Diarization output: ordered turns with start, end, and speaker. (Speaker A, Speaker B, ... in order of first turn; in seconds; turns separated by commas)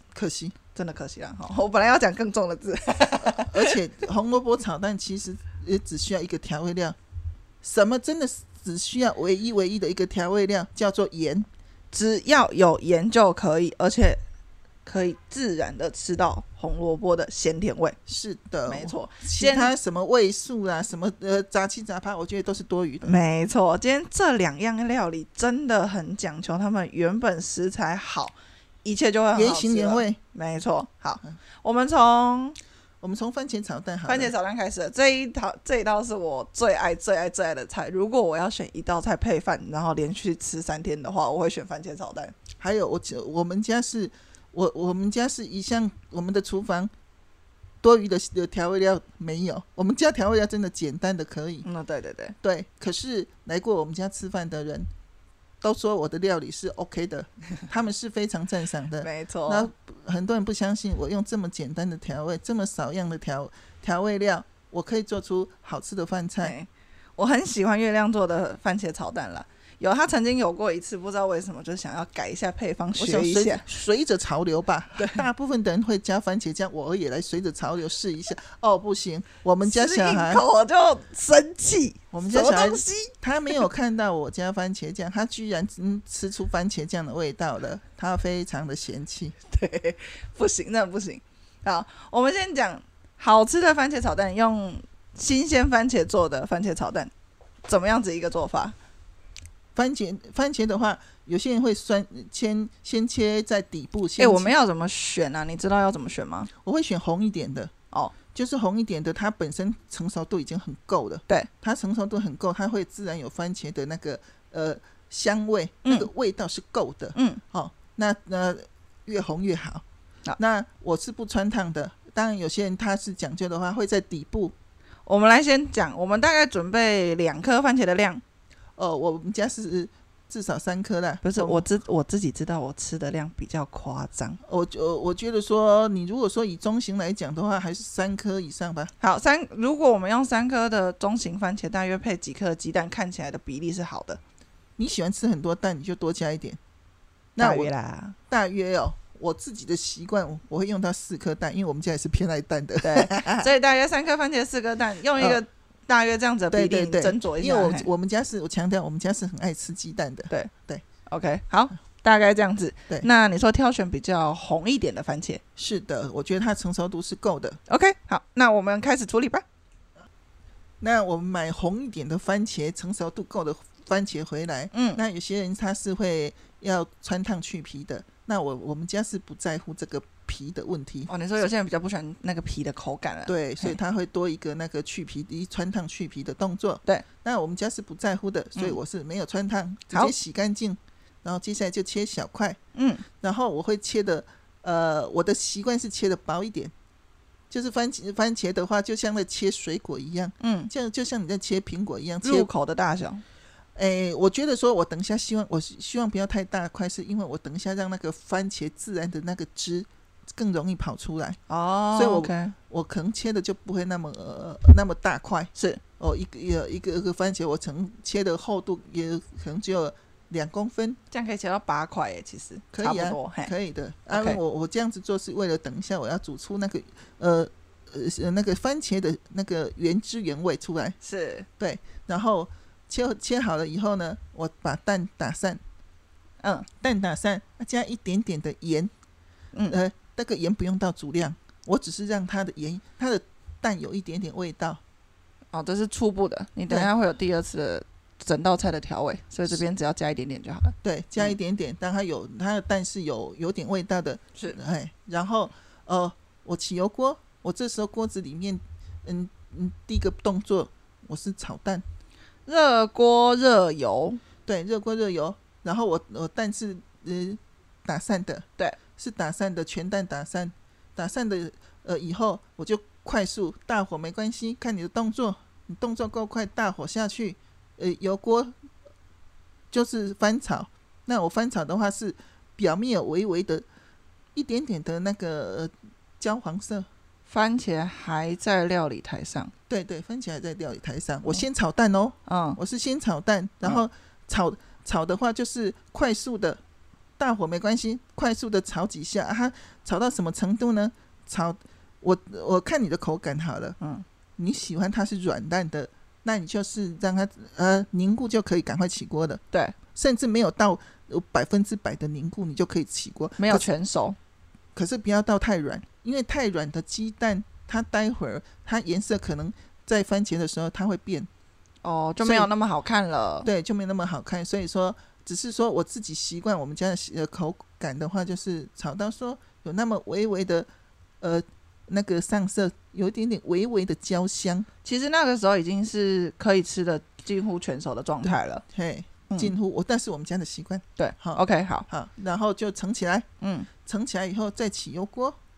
Speaker A: 0.1-0.6, Speaker B: 0.7-3.7, Speaker A: 3.4-7.0, Speaker A: 7.6-11.5, Speaker B: 11.9-14.2, Speaker B: 14.8-17.9, Speaker A: 18.1-23.2, Speaker B: 18.7-19.7, Speaker B: 23.0-32.6, Speaker A: 29.3-30.2, Speaker A: 33.0-34.3, Speaker B: 34.0-42.3, Speaker A: 42.6-46.9, Speaker A: 47.8-51.7, Speaker B: 51.6-52.4, Speaker A: 52.4-54.9, Speaker A: 55.6-66.5, Speaker B: 59.0-59.7, Speaker B: 66.4-73.6, Speaker A: 72.9-80.4, Speaker B: 75.0-75.2, Speaker B: 79.6-83.6, Speaker A: 82.1-89.3, Speaker B: 89.5-97.1, Speaker B: 97.7-98.8, Speaker A: 99.8-104.5, Speaker B: 104.2-106.5, Speaker A: 106.6-107.7, Speaker A: 108.3-119.8, Speaker B: 117.2-117.4, Speaker A: 120.4-124.5, Speaker B: 125.0-128.2, Speaker A: 128.8-131.7, Speaker B: 131.2-134.4, Speaker A: 134.4-138.9, Speaker B: 139.0-144.2, Speaker A: 144.8-146.6, Speaker A: 147.3-147.7, Speaker B: 147.4-148.2, Speaker A: 148.3-153.5, Speaker B: 152.8-157.9, Speaker A: 155.2-155.4, Speaker A: 156.5-160.8, Speaker B: 161.1-165.4, Speaker A: 165.6-167.6, Speaker B: 167.7-169.4, Speaker A: 170.8-181.2, Speaker B: 174.7-175.0, Speaker B: 181.1-183.8, Speaker A: 183.2-192.6, Speaker B: 192.7-193.0, Speaker A: 193.2-196.7, Speaker A: 197.5-202.5, Speaker B: 200.4-200.7, Speaker B: 202.2-203.2, Speaker A: 203.8-211.4, Speaker B: 211.5-212.5, Speaker A: 211.9-221.0, Speaker B: 215.5-215.8, Speaker B: 221.1-223.5, Speaker A: 222.7-231.0, Speaker B: 224.1-224.4, Speaker B: 231.0-231.5, Speaker A: 231.6-235.6, Speaker B: 236.4-236.7, Speaker A: 236.8-238.9, Speaker A: 239.7-244.8, Speaker B: 245.5-251.3, Speaker A: 250.8-261.8, Speaker B: 262.5-264.2, Speaker A: 264.5-268.5, Speaker A: 269.0-278.5, Speaker A: 279.7-283.6, Speaker A: 284.4-286.9, Speaker B: 287.3-289.5, Speaker A: 289.7-296.6, Speaker B: 292.3-292.6, Speaker A: 297.2-303.8, Speaker B: 303.8-304.0, Speaker A: 304.4-309.4, Speaker A: 309.9-313.7, Speaker B: 313.4-314.2, Speaker A: 314.8-321.3, Speaker B: 321.8-323.5, Speaker A: 322.2-322.5, Speaker A: 323.4-330.7, Speaker A: 331.2-334.7, Speaker B: 334.8-338.6, Speaker A: 338.2-343.2, Speaker B: 341.0-341.9, Speaker B: 343.4-343.7, Speaker A: 343.9-345.4